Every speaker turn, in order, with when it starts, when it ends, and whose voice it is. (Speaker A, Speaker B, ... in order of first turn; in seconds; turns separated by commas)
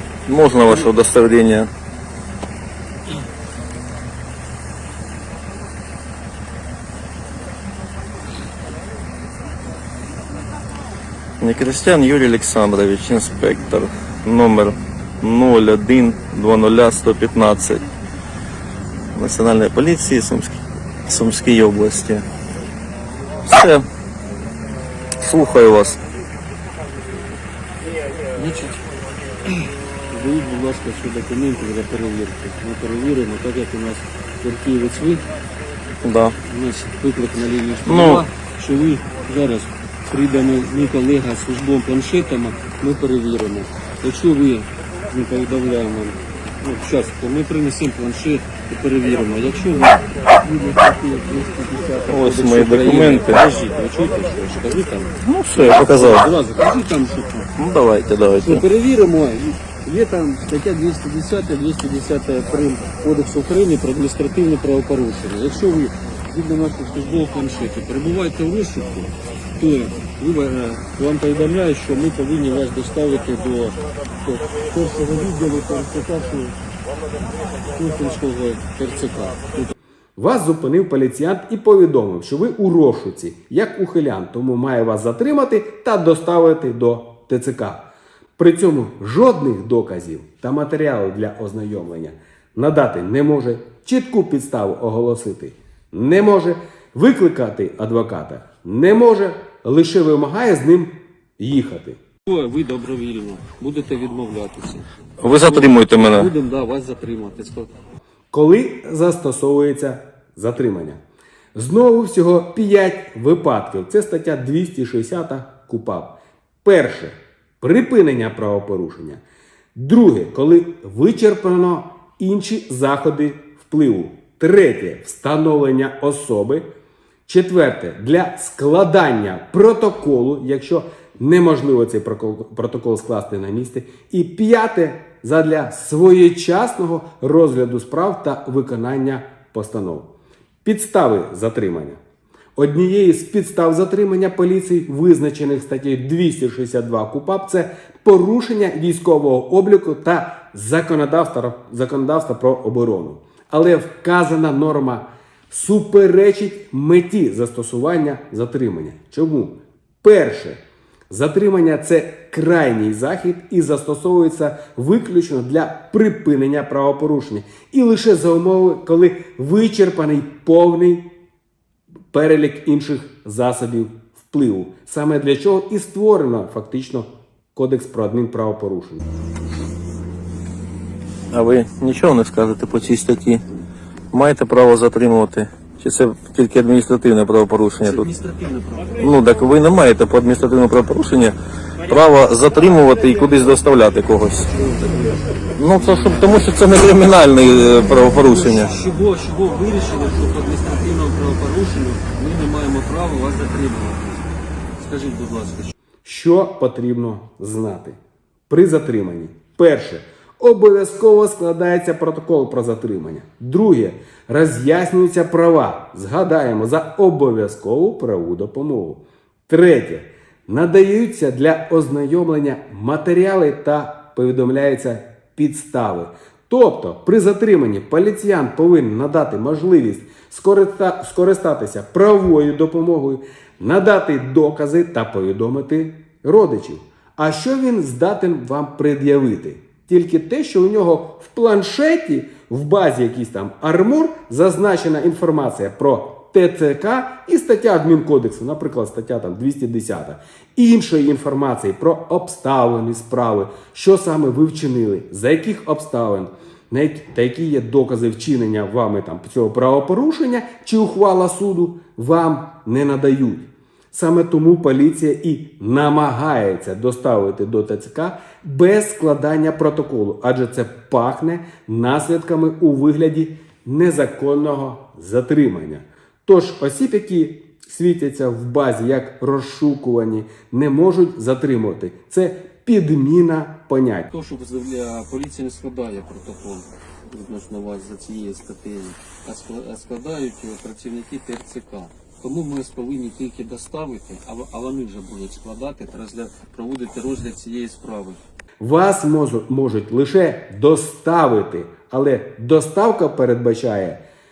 Speaker A: 0.3-1.7, Speaker B: 0.6-0.9, Speaker A: 11.4-17.9, Speaker A: 19.1-22.3, Speaker A: 23.5-23.9, Speaker A: 25.2-26.0, Speaker B: 28.3-28.9, Speaker B: 29.4-35.2, Speaker A: 36.0-36.4, Speaker B: 36.4-57.5, Speaker A: 37.9-38.2, Speaker A: 52.1-53.4, Speaker A: 55.2-56.3, Speaker A: 57.6-58.6, Speaker B: 58.4-76.6, Speaker B: 77.7-79.7, Speaker C: 80.2-87.8, Speaker C: 88.4-102.0, Speaker B: 102.2-107.7, Speaker A: 105.2-106.3, Speaker C: 108.3-111.0, Speaker C: 111.5-119.2, Speaker C: 119.8-126.7, Speaker C: 127.3-140.1, Speaker C: 140.7-142.0, Speaker C: 142.6-160.6, Speaker C: 161.1-171.1, Speaker C: 172.1-179.0, Speaker A: 181.3-183.4, Speaker A: 184.1-188.1, Speaker B: 187.8-189.0, Speaker A: 189.0-194.5, Speaker B: 194.4-196.5, Speaker A: 195.6-198.7, Speaker B: 198.2-205.7, Speaker C: 206.0-208.0, Speaker C: 208.5-284.1, Speaker B: 284.1-298.2, Speaker C: 298.6-304.0